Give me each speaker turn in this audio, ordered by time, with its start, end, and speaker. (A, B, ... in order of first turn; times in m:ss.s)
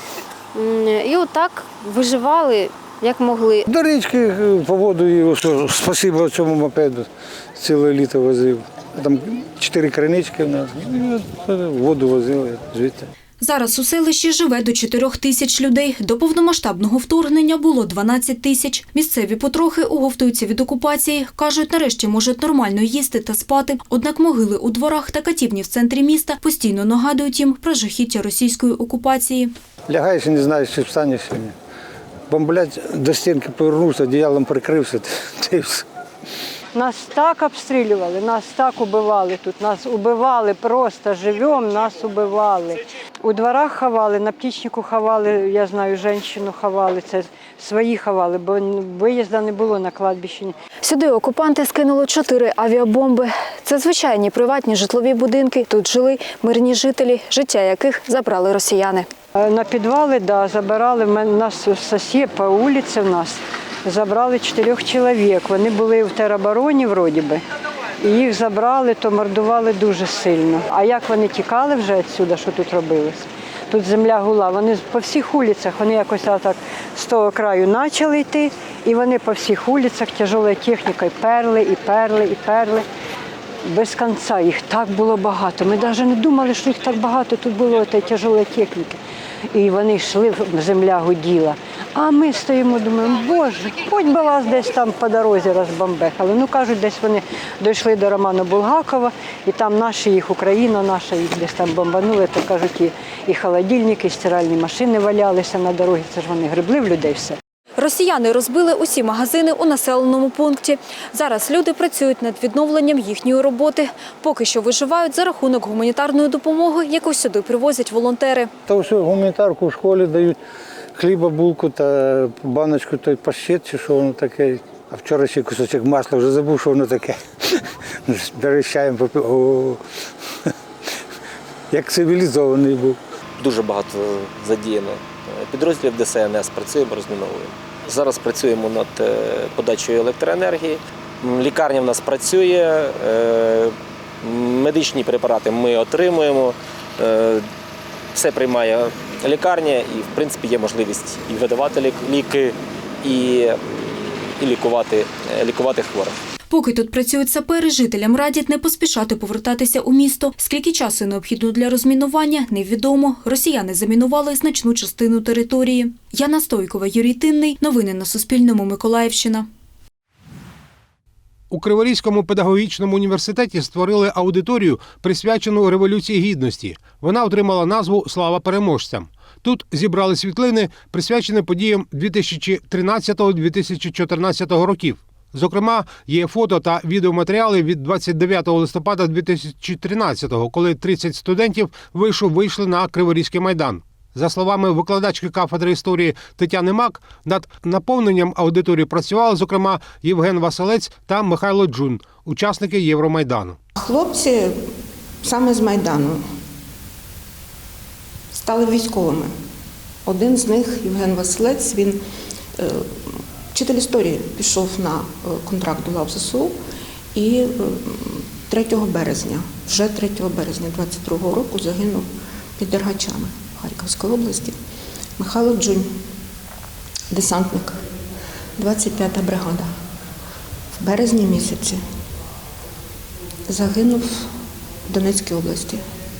0:00.5-0:03.7 A
0:03.7-0:13.1 B
0:13.4-0:29.5 C
0:29.9-0:31.5 B
0:32.3-0:35.8 B
0:36.7-0:50.5 D
0:50.8-0:55.0 E
0:55.2-0:55.7 C
0:55.7-0:59.0 E
0:59.4-1:07.4 D
1:08.0-1:22.8 D
1:23.6-1:29.0 D
1:29.5-1:47.4 D
1:47.8-1:53.4 C
1:51.4-1:51.8 E
1:53.4-1:53.8 E
1:54.3-1:58.5 E
1:54.8-1:56.5 C
1:57.6-1:58.0 C
1:58.7-2:00.4 B
2:01.0-2:07.2 B
2:08.1-2:09.8 B
2:11.7-2:13.0 B
2:15.6-2:16.1 F
2:18.3-2:18.6 F
2:20.2-2:20.6 F
2:24.5-2:26.5 F
2:28.2-2:28.7 F
2:29.4-2:32.1 F
2:34.5-2:36.0 F
2:36.5-2:49.4 C
2:51.5-3:23.6 G
3:23.8-3:24.6 H
3:25.2-3:26.2 H
3:28.3-3:29.3 H
3:30.0-3:32.0 H
3:32.6-3:36.6 H
3:37.1-3:44.6 H
3:45.2-3:45.9 H
3:47.1-3:47.8 H
3:48.6-3:49.7 H
3:50.8-3:51.8 H
3:53.5-3:54.3 H
3:54.9-3:55.8 H